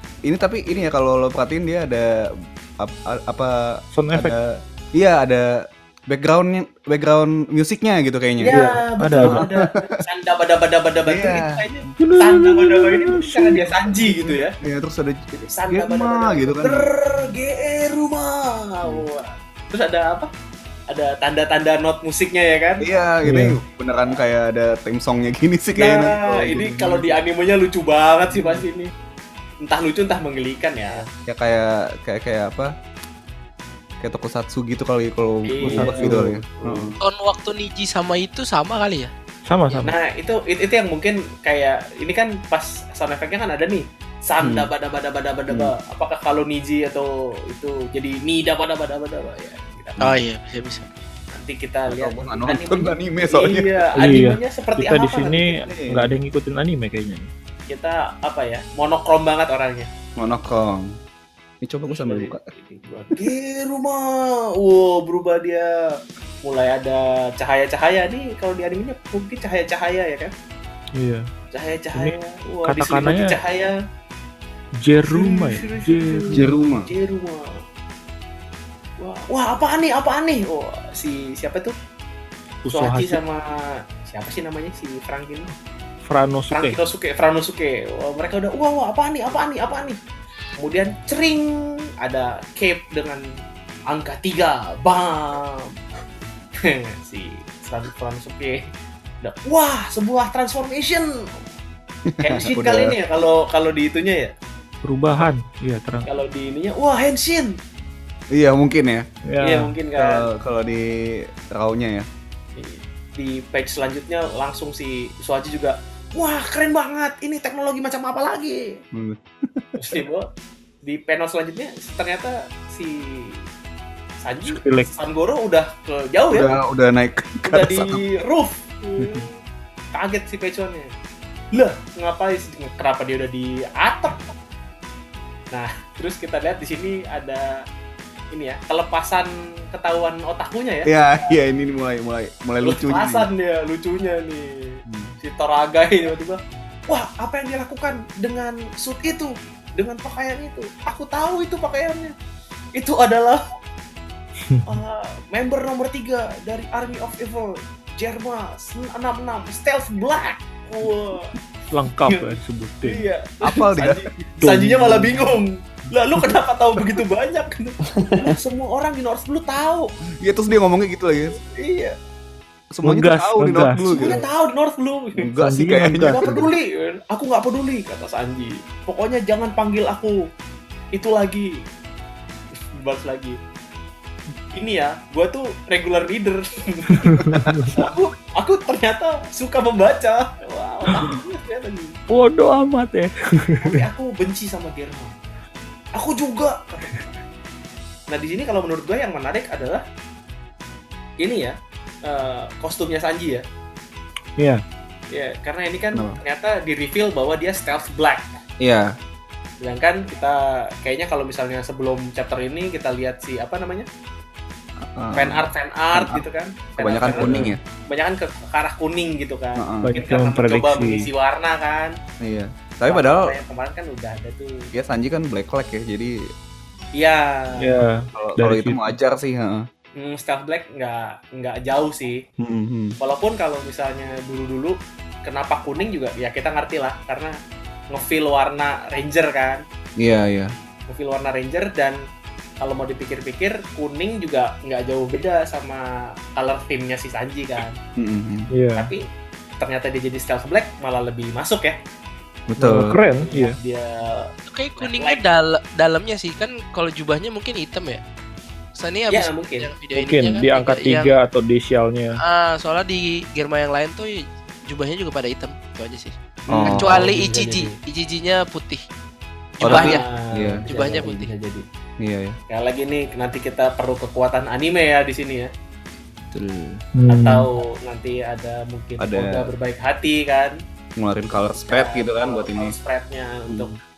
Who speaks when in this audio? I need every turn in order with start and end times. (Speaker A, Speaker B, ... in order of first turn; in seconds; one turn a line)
Speaker A: 0.2-8.6
Speaker B: 3.9-4.3
Speaker C: 8.4-14.6
Speaker B: 8.5-9.4
Speaker A: 11.1-11.6
Speaker B: 12.0-13.9
Speaker A: 14.6-16.9
Speaker C: 15.3-20.3
Speaker C: 20.9-22.9
Speaker A: 22.8-27.1
Speaker B: 23.2-23.6
Speaker C: 25.7-28.9
Speaker C: 29.6-31.1
Speaker A: 31.2-32.7
Speaker A: 34.0-37.0
Speaker C: 35.5-36.9
Speaker B: 35.6-36.4
Speaker D: 37.0-39.1
Speaker B: 39.5-39.9
Speaker C: 39.8-50.2
Speaker A: 44.4-44.7
Speaker D: 50.0-50.9
Speaker C: 51.3-55.7
Speaker A: 51.9-53.9
Speaker B: 54.0-57.3
Speaker A: 55.7-56.1
Speaker C: 57.7-59.9
Speaker A: 60.2-61.0
Speaker A: 61.6-62.5
Speaker C: 61.9-65.7
Speaker C: 66.4-70.3
Speaker B: 71.0-71.3
Speaker C: 71.5-73.7
Speaker B: 71.9-73.4
Speaker B: 74.8-76.5
Speaker C: 75.0-77.6
Speaker A: 76.3-76.9
Speaker C: 79.0-81.7
Speaker B: 82.6-83.2
Speaker C: 82.7-85.5
Speaker B: 86.0-86.8
Speaker C: 86.5-90.0
Speaker C: 90.6-93.2
Speaker C: 93.9-95.8
Speaker C: 96.6-98.7
Speaker C: 99.2-101.3
Speaker A: 102.1-103.0
Speaker C: 102.2-104.3
Speaker B: 104.8-106.1
Speaker C: 106.0-107.6
Speaker A: 108.3-109.0
Speaker B: 109.3-109.7
Speaker C: 109.4-110.3
Speaker A: 110.0-112.1
Speaker C: 112.6-118.8
Speaker A: 118.9-119.7
Speaker C: 119.8-120.3
Speaker C: 120.8-123.5
Speaker C: 124.2-126.5
Speaker B: 124.5-124.9
Speaker A: 126.3-128.0
Speaker C: 127.5-129.3
Speaker A: 129.0-129.2
Speaker C: 129.9-130.9
Speaker C: 131.5-134.2
Speaker C: 135.5-137.5
Speaker C: 138.3-141.3
Speaker A: 140.8-143.2
Speaker C: 142.6-152.1
Speaker A: 144.8-145.1
Speaker C: 152.7-153.4
Speaker C: 154.6-161.3
Speaker B: 161.7-163.1
Speaker C: 162.1-169.9
Speaker A: 163.4-164.4
Speaker B: 164.4-165.3
Speaker A: 170.2-171.4
Speaker C: 171.4-171.9
Speaker A: 172.7-174.2
Speaker B: 172.8-174.2
Speaker C: 173.9-175.2
Speaker A: 175.2-176.5
Speaker B: 175.4-176.4
Speaker C: 176.0-180.2
Speaker C: 180.9-181.5
Speaker C: 182.7-183.4
Speaker C: 184.5-192.0
Speaker B: 187.0-187.8
Speaker A: 187.2-187.7
Speaker B: 192.1-193.8
Speaker C: 193.6-195.1
Speaker C: 195.9-197.2
Speaker C: 198.1-199.8
Speaker C: 201.2-203.4
Speaker C: 205.1-208.4
Speaker A: 205.9-206.2
Speaker A: 208.6-208.9
Speaker C: 209.6-213.9
Speaker A: 214.8-216.2
Speaker C: 215.1-222.0
Speaker A: 216.8-217.6
Speaker B: 217.1-217.5
Speaker A: 219.6-219.9
Speaker B: 219.8-221.1
Speaker A: 222.2-223.3
Speaker C: 222.8-224.7
Speaker A: 224.7-226.2
Speaker C: 226.9-227.8
Speaker B: 227.6-228.9
Speaker A: 228.1-229.7
Speaker C: 230.0-232.2
Speaker A: 232.4-232.9
Speaker C: 233.0-237.3
Speaker C: 237.9-239.6
Speaker A: 240.0-240.5
Speaker C: 240.9-242.0
Speaker C: 242.6-247.8
Speaker A: 248.0-248.5
Speaker B: 248.5-248.9
Speaker C: 248.8-249.0
Speaker C: 249.6-251.8
Speaker A: 252.5-253.0
Speaker B: 252.6-253.6
Speaker C: 253.2-255.3
Speaker D: 254.5-258.0
Speaker D: 258.7-261.1
Speaker C: 259.1-259.7
Speaker B: 259.9-262.2
Speaker D: 262.2-266.1
Speaker C: 266.5-267.8
Speaker A: 266.5-267.0
Speaker D: 266.6-268.8
Speaker D: 269.6-270.0
Speaker A: 269.6-270.6
Speaker C: 269.6-271.6
Speaker D: 270.7-271.3
Speaker A: 272.0-272.4
Speaker C: 272.5-275.5
Speaker A: 276.3-276.8
Speaker B: 276.9-277.5
Speaker C: 277.1-280.5
Speaker A: 279.0-279.5
Speaker A: 281.0-282.7
Speaker C: 281.5-283.8
Speaker A: 283.5-283.7